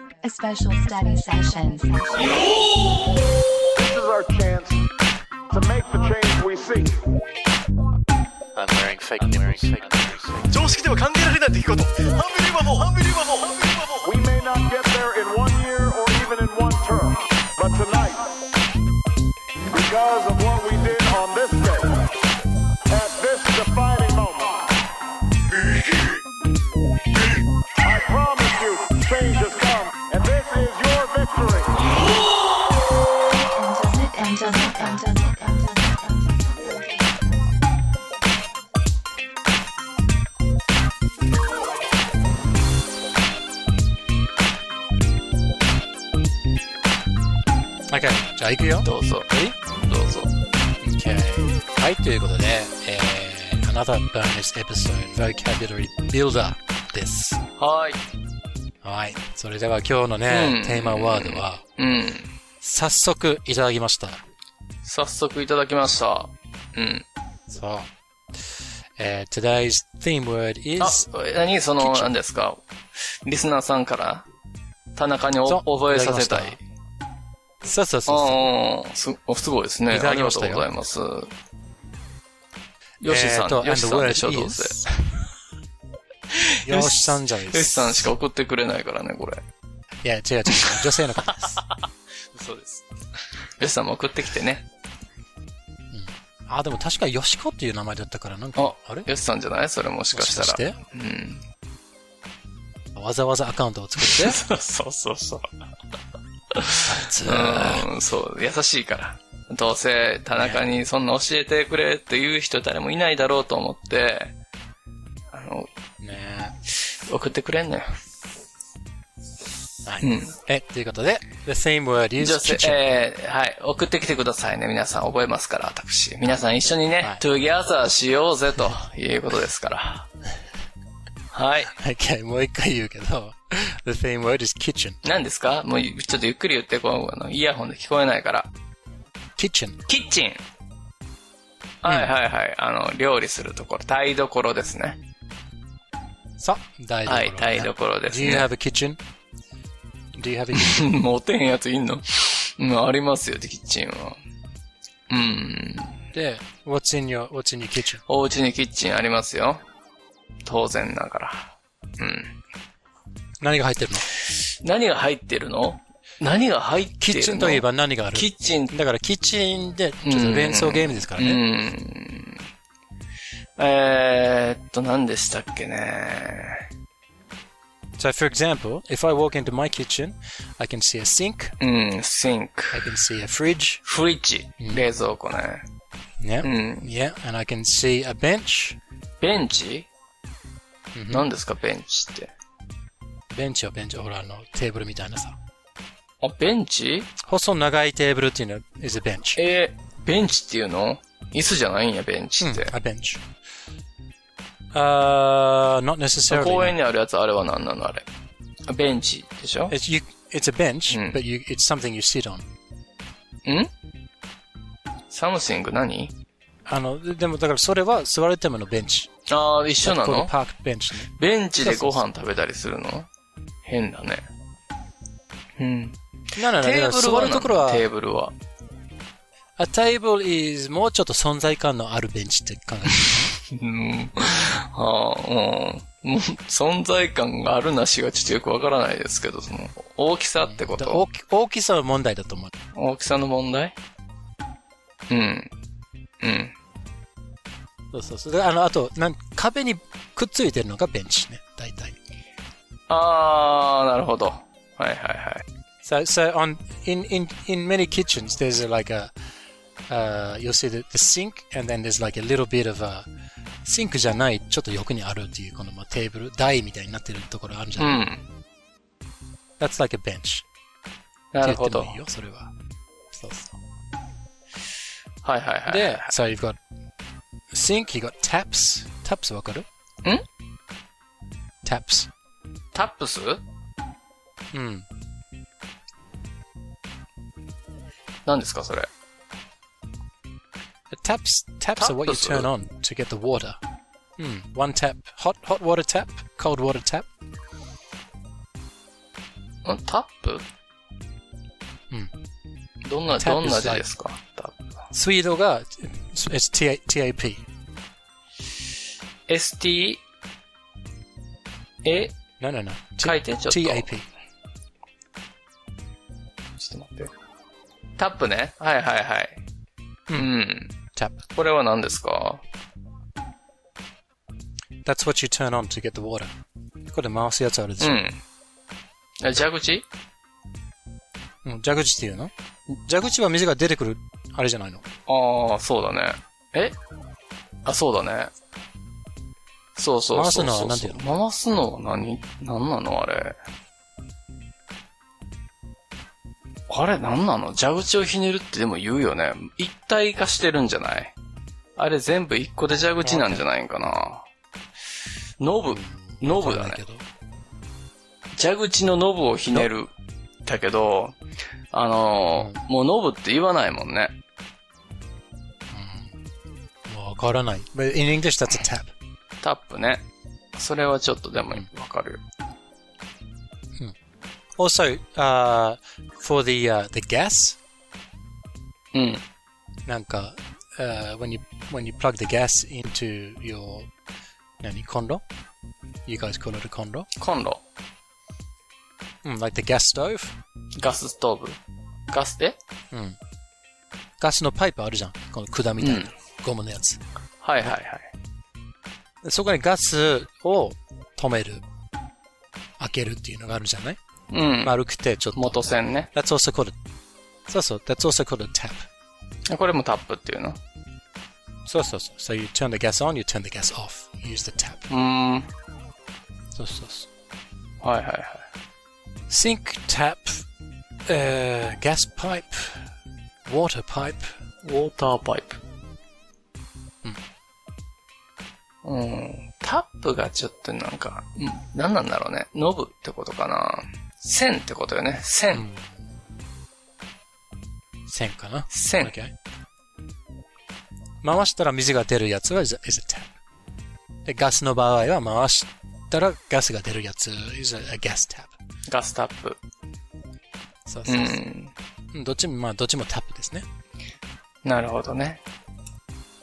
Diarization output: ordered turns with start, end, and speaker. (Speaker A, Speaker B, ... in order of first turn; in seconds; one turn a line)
Speaker A: 0.2-2.5
Speaker B: 3.8-4.8
Speaker B: 5.5-7.0
Speaker C: 8.6-14.1
Speaker B: 14.0-18.4
Speaker B: 19.7-22.1
Speaker B: 22.9-24.7
Speaker B: 27.8-31.9
Speaker A: 33.3-37.2
Speaker D: 47.9-49.5
Speaker E: 48.8-49.3
Speaker E: 49.9-50.3
Speaker D: 50.8-57.4
Speaker E: 57.6-58.0
Speaker D: 58.8-61.6
Speaker E: 60.3-62.3
Speaker D: 62.6-64.2
Speaker E: 64.8-67.0
Speaker D: 67.5-67.9
Speaker D: 68.5-71.1
Speaker E: 70.8-72.6
Speaker D: 71.8-72.1
Speaker E: 73.2-74.2
Speaker E: 75.0-76.6
Speaker D: 75.5-76.6
Speaker D: 77.6-78.5
Speaker E: 78.1-81.3
Speaker D: 79.9-80.7
Speaker E: 83.0-84.9
Speaker D: 83.0-84.9
Speaker E: 86.3-89.4
Speaker D: 86.7-88.1
Speaker D: 90.0-91.6
Speaker E: 90.5-94.7
Speaker D: 95.9-99.1
Speaker E: 98.6-101.4
Speaker D: 100.1-100.8
Speaker D: 103.0-104.4
Speaker E: 104.0-105.5
Speaker E: 106.5-114.3
Speaker D: 106.8-107.9
Speaker D: 110.3-110.7
Speaker E: 115.3-115.7
Speaker D: 116.0-116.6
Speaker E: 116.7-117.9
Speaker D: 119.8-122.8
Speaker E: 120.0-120.4
Speaker E: 122.2-130.1
Speaker E: 131.3-131.7
Speaker D: 131.7-135.0
Speaker E: 135.0-138.5
Speaker D: 139.4-139.8
Speaker E: 139.9-140.4
Speaker E: 141.8-145.0
Speaker D: 141.8-142.1
Speaker D: 146.4-149.0
Speaker E: 147.1-148.5
Speaker D: 150.2-150.9
Speaker E: 150.5-154.2
Speaker E: 155.1-156.0
Speaker D: 156.1-158.0
Speaker E: 158.1-159.6
Speaker E: 160.4-162.4
Speaker D: 163.4-164.1
Speaker E: 164.1-168.7
Speaker D: 167.0-171.4
Speaker E: 170.0-172.5
Speaker E: 173.6-176.7
Speaker D: 178.0-181.6
Speaker E: 181.6-183.0
Speaker D: 182.7-183.8
Speaker E: 183.8-185.6
Speaker D: 184.6-184.9
Speaker D: 186.2-188.8
Speaker E: 186.4-186.9
Speaker E: 189.2-189.9
Speaker D: 190.9-191.3
Speaker E: 191.1-192.3
Speaker D: 193.3-195.4
Speaker E: 196.2-197.1
Speaker D: 197.2-199.4
Speaker E: 199.4-202.7
Speaker D: 202.4-203.2
Speaker D: 204.7-206.8
Speaker E: 206.3-208.1
Speaker E: 208.7-209.8
Speaker D: 209.7-212.4
Speaker E: 210.9-211.2
Speaker E: 213.4-213.7
Speaker E: 215.1-216.1
Speaker D: 216.7-219.1
Speaker E: 219.3-220.3
Speaker D: 219.8-222.1
Speaker E: 221.1-223.1
Speaker E: 223.7-224.2
Speaker E: 225.6-228.3
Speaker D: 226.4-227.9
Speaker D: 229.6-233.3
Speaker E: 233.0-241.1
Speaker D: 240.4-242.5
Speaker E: 242.7-243.8
Speaker E: 245.1-245.5
Speaker E: 246.2-246.5
Speaker D: 247.9-251.9
Speaker E: 252.9-255.4
Speaker D: 255.8-259.1
Speaker D: 259.9-263.1
Speaker D: 263.6-268.0
Speaker E: 267.8-268.2
Speaker D: 269.6-270.4
Speaker E: 271.3-272.0
Speaker D: 271.4-272.5
Speaker D: 273.1-273.6
Speaker E: 275.2-276.1
Speaker D: 275.7-276.6
Speaker D: 277.5-279.7
Speaker D: 281.6-282.1
Speaker E: 282.7-283.4
Speaker D: 284.5-284.9
Speaker E: 288.2-288.9
Speaker D: 290.9-293.6
Speaker E: 291.8-292.5
Speaker D: 294.2-297.1
Speaker E: 299.6-300.4
Speaker E: 302.8-304.8
Speaker D: 303.2-303.9
Speaker D: 304.9-307.4
Speaker E: 309.3-310.0
Speaker E: 311.8-312.1
Speaker D: 312.4-314.1
Speaker E: 313.0-313.9
Speaker E: 316.6-317.1
Speaker E: 318.0-319.4
Speaker E: 320.1-320.8
Speaker D: 320.9-321.2
Speaker E: 321.3-322.4
Speaker D: 324.9-326.3
Speaker D: 326.9-328.0
Speaker E: 327.8-328.2
Speaker E: 329.2-329.9
Speaker D: 331.4-332.3
Speaker D: 332.9-334.9
Speaker E: 335.1-336.8
Speaker E: 337.6-338.3
Speaker E: 339.8-343.4
Speaker D: 340.1-341.0
Speaker E: 346.7-351.2
Speaker E: 351.8-354.3
Speaker D: 353.0-353.4
Speaker E: 355.4-356.8
Speaker D: 355.7-357.0
Speaker E: 358.4-359.9
Speaker E: 360.4-361.2
Speaker E: 361.7-364.1
Speaker D: 362.4-362.6
Speaker D: 365.7-366.2
Speaker D: 366.9-368.9
Speaker E: 369.4-370.0
Speaker E: 370.6-372.2
Speaker D: 374.6-377.6
Speaker E: 378.9-379.2
Speaker D: 379.9-383.9
Speaker D: 384.6-385.2
Speaker D: 386.1-387.1
Speaker E: 387.2-387.6
Speaker D: 389.2-390.4
Speaker E: 390.8-391.6
Speaker E: 392.1-392.6
Speaker D: 392.9-393.2
Speaker D: 394.2-397.0
Speaker E: 395.8-396.1
Speaker E: 397.4-398.1
Speaker D: 399.2-401.6
Speaker D: 402.8-404.0
Speaker E: 404.3-404.8
Speaker D: 404.6-406.8
Speaker E: 405.4-406.1
Speaker D: 407.5-408.9
Speaker E: 409.5-410.6
Speaker D: 411.7-414.9
Speaker E: 414.9-415.5
Speaker D: 416.5-417.1
Speaker E: 417.8-418.4
Speaker D: 419.3-420.4
Speaker D: 421.1-422.9
Speaker D: 423.4-424.3
Speaker E: 424.6-425.6
Speaker E: 428.8-435.6
Speaker D: 435.5-436.0
Speaker D: 438.1-439.3
Speaker E: 438.7-439.1
Speaker D: 441.2-443.3
Speaker D: 444.2-448.6
Speaker E: 448.9-449.6
Speaker D: 450.9-451.4
Speaker E: 451.1-451.7
Speaker D: 452.1-453.6
Speaker E: 454.6-455.4